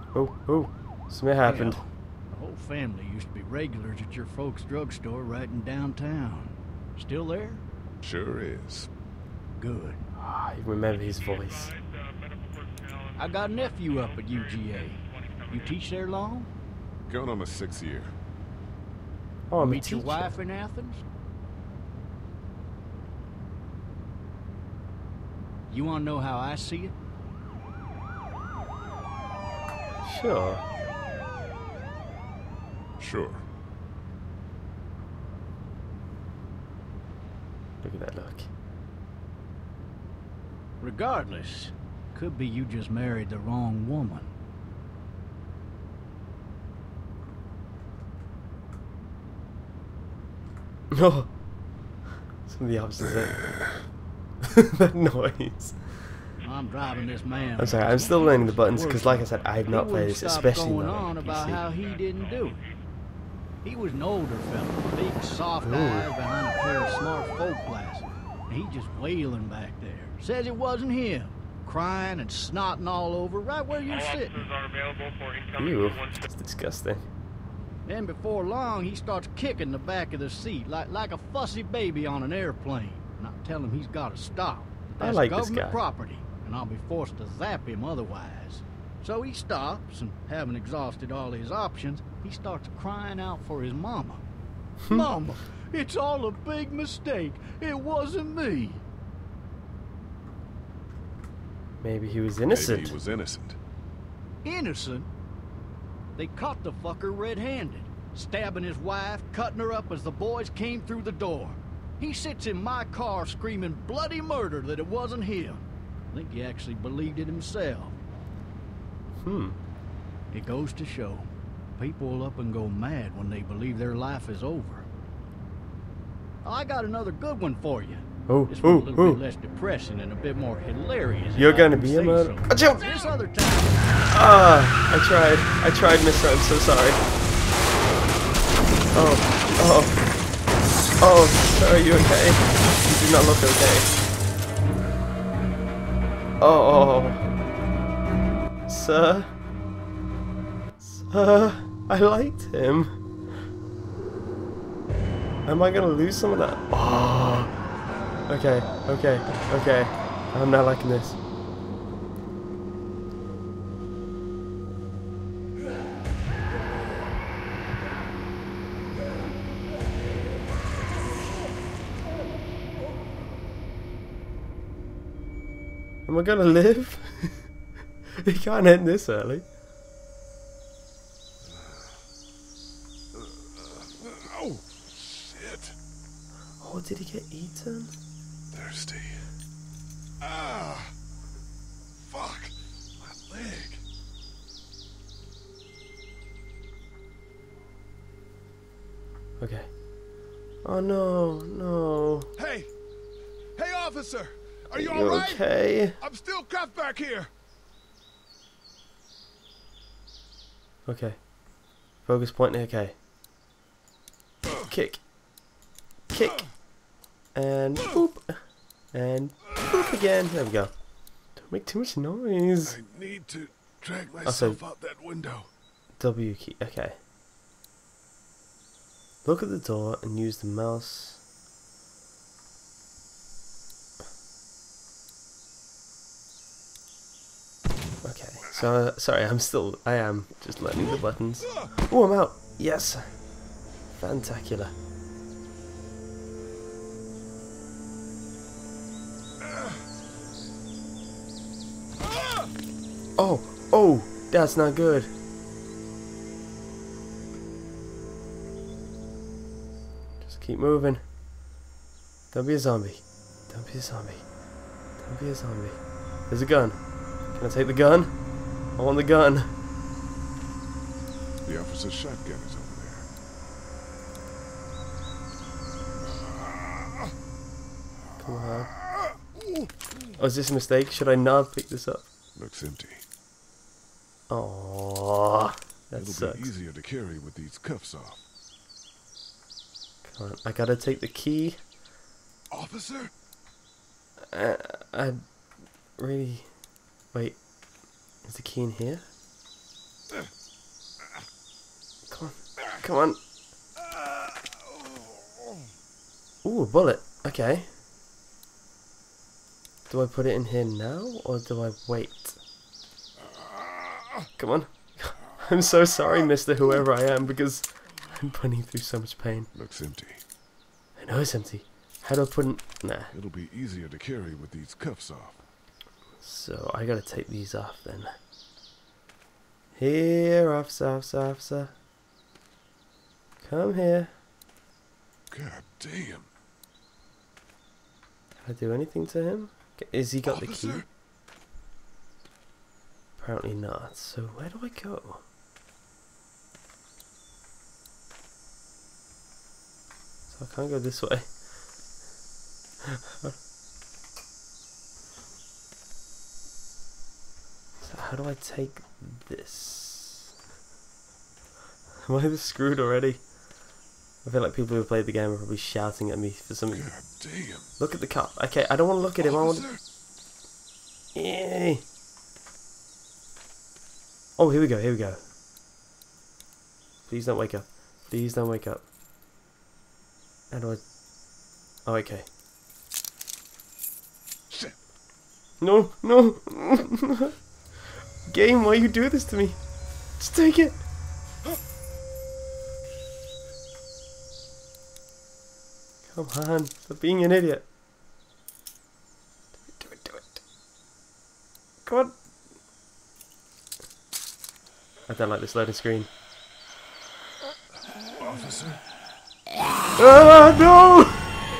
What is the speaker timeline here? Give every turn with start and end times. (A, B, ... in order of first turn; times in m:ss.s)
0:00.1-0:01.8 A
0:01.4-0:07.6 B
0:08.0-0:08.9 C
0:09.6-0:10.0 B
0:10.2-0:11.7 A
0:11.3-0:15.7 D
0:13.2-0:16.5 B
0:17.1-0:18.1 C
0:19.5-0:20.4 A
0:19.6-0:21.0 B
0:25.7-0:26.9 B
0:30.0-0:30.6 A
0:33.0-0:33.4 C
0:37.8-0:38.5 A
0:40.8-0:44.3 B
0:50.9-0:51.3 A
0:52.4-0:53.4 A
0:54.4-0:56.1 A
0:56.4-1:02.6 B
0:57.6-1:01.6 A
1:03.6-1:14.5 B
1:05.6-1:06.1 A
1:13.9-1:16.1 D
1:15.6-1:17.0 A
1:17.8-1:34.2 B
1:25.0-1:25.8 A
1:34.9-1:38.8 B
1:41.8-1:42.9 A
1:42.4-1:43.6 C
1:44.4-1:45.1 B
1:46.2-1:58.0 B
1:59.2-1:59.6 A
2:00.3-2:04.9 B
2:06.4-2:13.9 B
2:08.3-2:09.2 A
2:11.3-2:12.9 A
2:14.1-2:17.0 A
2:18.9-2:20.0 A
2:21.0-2:23.9 A
2:26.4-2:27.3 A
2:28.7-2:29.3 A
2:30.8-2:32.9 A
2:35.4-2:37.5 A
2:38.3-2:41.2 A
2:56.0-2:57.5 A
2:58.2-2:59.4 A
3:01.4-3:02.0 C
3:03.1-3:05.8 C
3:06.6-3:07.9 A
3:08.5-3:09.3 C
3:10.2-3:10.9 C
3:12.0-3:13.8 C
3:19.4-3:19.7 A
3:20.6-3:22.3 A
3:22.4-3:22.7 C
3:23.5-3:27.3 C
3:24.7-3:26.0 A
3:30.9-3:31.3 A
3:32.0-3:33.0 A
3:34.7-3:35.0 A
3:36.1-3:36.5 A
3:37.3-3:40.8 A
3:41.3-3:42.8 A
3:42.6-3:45.5 C
3:44.2-3:44.6 A
3:46.0-3:47.0 A
3:49.2-3:51.2 A
3:58.0-4:03.0 A
4:03.9-4:04.7 A
4:13.2-4:15.1 A
4:20.2-4:21.0 A
4:22.3-4:24.3 A
4:25.0-4:28.2 A
4:28.7-4:29.5 A
4:31.4-4:33.1 C
4:38.2-4:38.7 A
4:40.2-4:42.1 A
4:42.4-4:43.0 C
4:44.3-4:46.5 A
4:45.9-4:48.2 C
4:50.0-4:51.6 A
4:52.5-4:53.1 C
4:54.3-4:55.2 A
4:56.0-4:56.5 A
4:57.1-4:57.4 A
4:58.2-4:59.0 A
5:02.1-5:03.2 A
5:04.0-5:04.4 C
5:06.4-5:07.7 A
5:09.9-5:12.4 A
5:14.4-5:19.5 A
5:19.5-5:20.2 C
5:21.0-5:23.1 A
5:23.1-5:25.4 C
5:26.2-5:28.1 A
5:29.8-5:31.7 A
5:33.4-5:34.1 A
5:35.3-5:36.3 C
5:38.4-5:40.8 A
5:40.2-5:40.8 C
5:43.2-5:45.2 A
5:50.3-5:51.4 A
5:52.9-5:53.3 A
5:57.8-6:00.3 A
6:02.0-6:03.3 A
6:04.2-6:06.9 A
6:06.7-6:07.7 C
6:07.8-6:09.7 A
6:11.1-6:11.8 A
6:14.4-6:15.2 A
6:17.1-6:18.9 A
6:20.5-6:20.8 A
6:21.8-6:22.2 A
6:25.6-6:27.4 A
6:28.2-6:29.6 A
6:30.2-6:30.8 A
6:36.1-6:37.6 A
6:39.8-6:40.4 A
6:41.8-6:42.2 A
6:45.1-6:46.1 A
6:48.2-6:48.8 C
6:50.0-6:51.4 A